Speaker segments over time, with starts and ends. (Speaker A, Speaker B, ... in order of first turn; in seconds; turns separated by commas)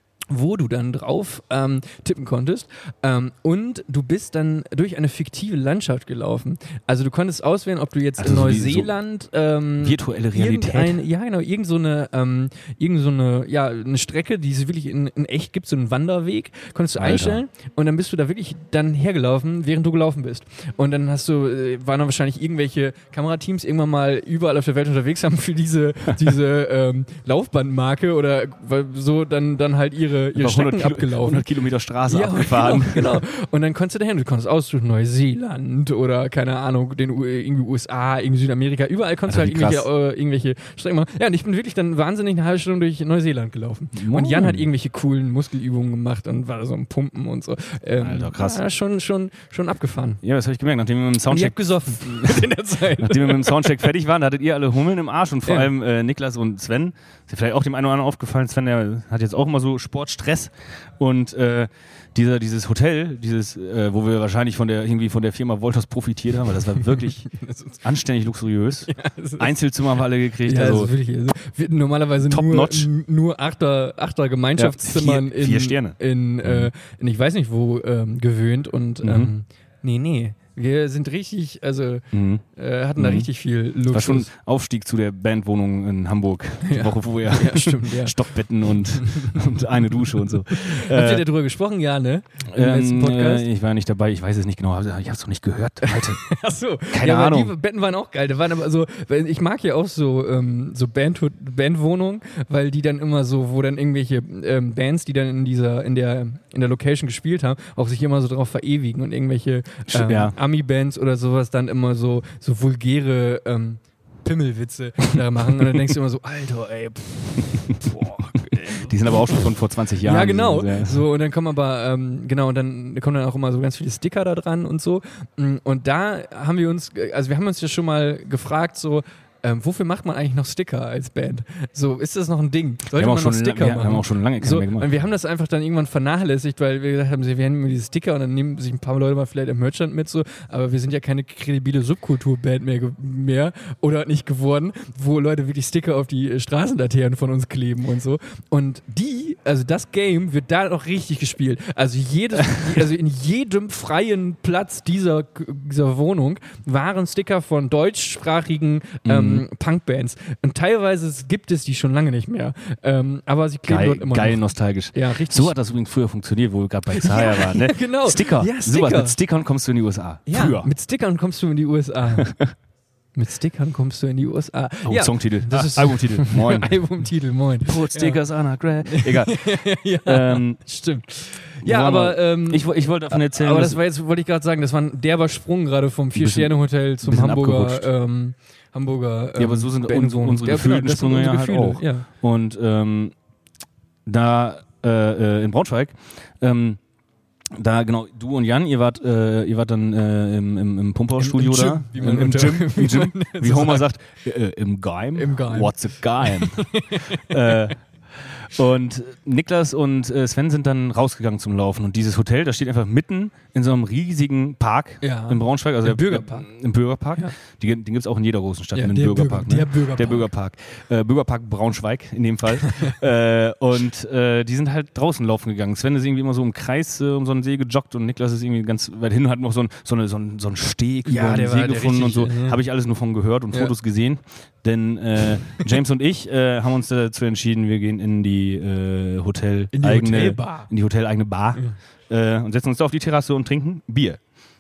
Speaker A: 0.3-31.5, Speaker B: 8.2-8.9, Speaker B: 9.8-11.0, Speaker B: 17.0-17.4, Speaker B: 30.4-33.2, Speaker A: 32.1-50.2, Speaker B: 39.3-39.9, Speaker B: 44.0-44.7, Speaker B: 48.0-48.6, Speaker B: 50.2-52.4, Speaker A: 51.3-53.8, Speaker B: 53.0-67.3, Speaker A: 66.8-67.8, Speaker B: 67.8-70.9, Speaker A: 68.9-69.5, Speaker A: 70.4-84.3, Speaker B: 72.2-72.9, Speaker B: 74.6-76.7, Speaker B: 79.0-79.3, Speaker B: 82.1-82.4, Speaker B: 83.0-83.3, Speaker B: 83.9-91.3, Speaker A: 86.6-88.2, Speaker A: 88.9-93.5, Speaker B: 92.5-96.2, Speaker A: 95.8-119.5, Speaker B: 96.9-97.5, Speaker B: 109.9-110.3, Speaker B: 118.5-121.0, Speaker A: 120.0-165.5, Speaker B: 132.9-134.9, Speaker B: 159.1-159.4, Speaker B: 163.7-170.7, Speaker A: 166.9-169.2, Speaker A: 170.3-172.3, Speaker B: 172.2-172.5, Speaker A: 173.2-178.2, Speaker B: 174.8-176.8, Speaker B: 177.7-180.6, Speaker A: 178.8-192.1, Speaker B: 181.6-183.8, Speaker B: 186.2-187.9, Speaker B: 189.4-193.1, Speaker B: 194.1-196.8, Speaker B: 197.6-207.8, Speaker A: 201.2-203.9, Speaker A: 205.2-207.7, Speaker B: 208.3-244.2, Speaker A: 215.0-216.5, Speaker A: 218.8-220.3, Speaker A: 222.7-222.9, Speaker A: 231.1-232.6, Speaker A: 239.7-240.7